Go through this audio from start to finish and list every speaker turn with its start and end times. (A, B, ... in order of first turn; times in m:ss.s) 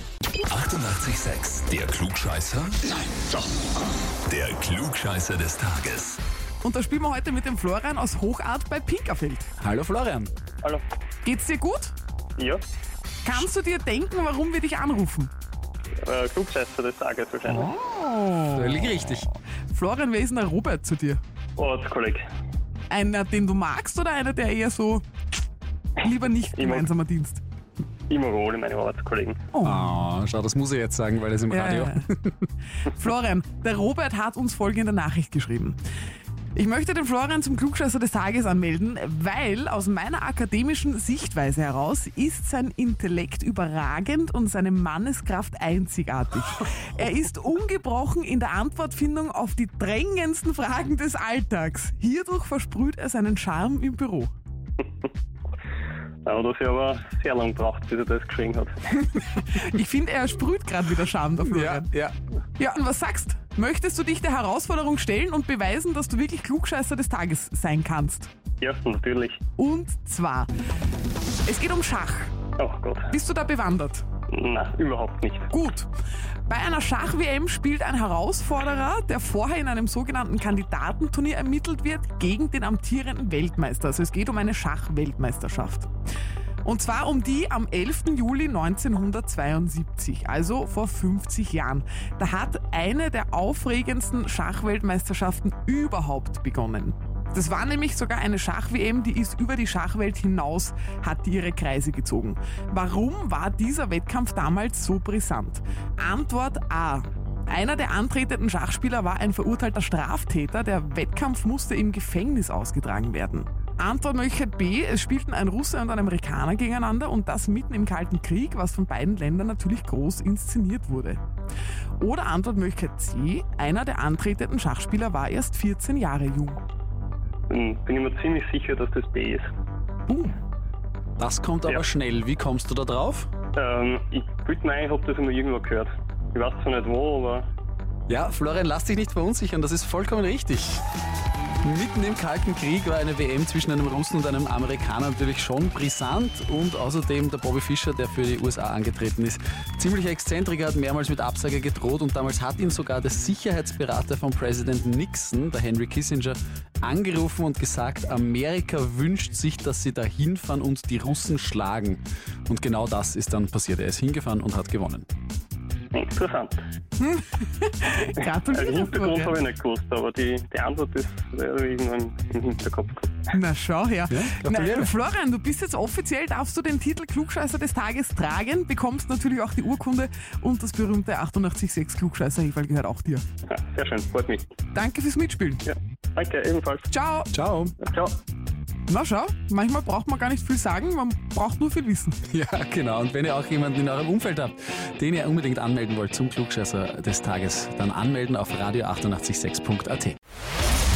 0:00.5-0:02.8 A
0:04.3-0:06.2 A
0:06.6-0:09.5 B
0:09.6-0:10.3 C
0:11.2-0:11.9 B
0:12.4-0:12.6 D
0:13.2-0:15.3 B
0:16.0-0:17.7 D
0:17.5-0:19.0 B
0:18.5-0:19.3 C
0:19.7-0:21.2 B
0:21.6-0:22.2 D
0:22.9-0:25.0 B
0:26.0-0:27.4 B
0:26.5-0:26.9 D
0:28.1-0:29.4 D
0:29.5-0:29.9 B
0:29.6-0:32.3 C
0:31.5-0:32.1 B
0:32.8-0:35.8 B
0:36.5-0:54.3 B
0:56.2-0:58.9 D
0:59.0-1:01.9 B
1:01.4-1:02.1 C
1:02.6-1:08.3 B
1:08.6-1:09.4 D
1:09.6-1:10.5 B
1:11.4-1:12.3 B
1:12.6-1:13.1 D
1:13.1-1:14.0 B
1:14.3-1:15.5 D
1:15.5-1:15.9 B
1:16.5-1:25.9 B
1:26.6-2:01.2 B
2:02.0-2:06.6 B
2:07.5-2:09.4 D
2:10.1-2:10.3 B
2:11.2-2:13.3 C
2:13.6-2:17.5 D
2:18.1-2:20.8 C
2:21.6-2:45.0 C
2:45.9-2:46.6 D
2:47.0-2:49.4 B
2:48.5-2:53.2 D
2:53.3-3:03.2 B
2:54.1-2:54.9 C
3:03.5-3:04.4 D
3:04.7-3:05.6 B
3:05.6-3:06.9 D
3:06.9-3:07.3 B
3:07.3-3:07.7 C
3:07.8-3:08.2 D
3:08.9-3:12.2 B
3:12.3-3:20.2 C